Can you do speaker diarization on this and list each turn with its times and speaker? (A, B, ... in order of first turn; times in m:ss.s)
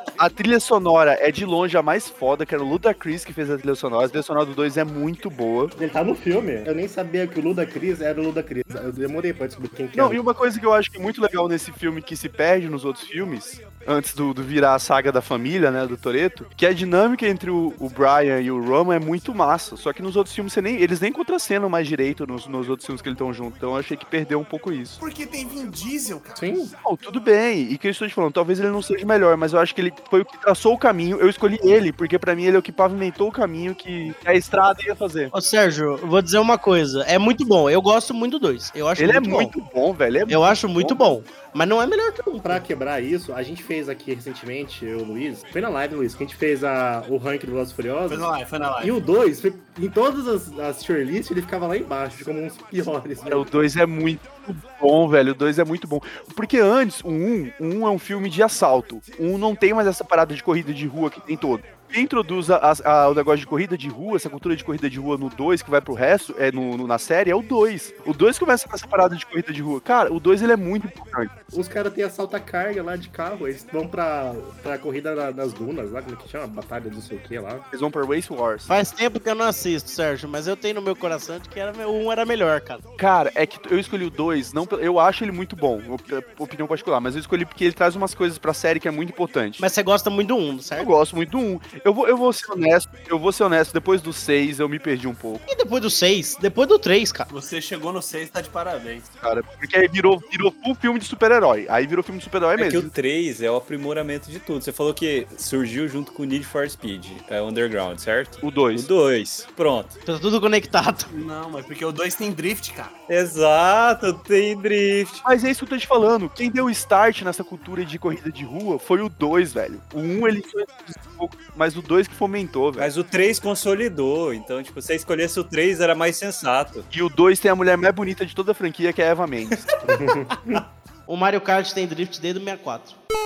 0:00.2-0:05.7 A
0:05.8-0:10.2 B
0:10.0-0:25.0 A
0:25.0-0:26.5 C
0:26.4-0:26.7 B
0:26.8-0:35.3 A
0:35.3-0:39.5 D
0:39.0-0:41.0 A
0:40.3-0:42.6 D
0:42.4-0:53.5 B
0:48.1-0:49.0 C
0:53.3-1:11.3 A
1:11.5-1:17.7 B
1:17.7-1:18.7 A
1:18.7-1:22.8 D
1:23.0-1:29.6 A
1:29.6-1:30.9 D
1:30.8-1:35.4 A
1:35.5-1:37.3 D
1:37.3-1:39.1 C
1:39.2-1:42.9 A
1:42.6-1:50.0 E
1:48.4-1:48.9 A
1:50.1-1:51.1 D
1:51.1-1:53.0 C
1:53.1-1:55.2 E
1:55.2-2:02.9 A
2:02.8-2:06.9 E
2:06.9-2:09.6 A
2:09.8-2:10.6 B
2:11.1-2:13.0 D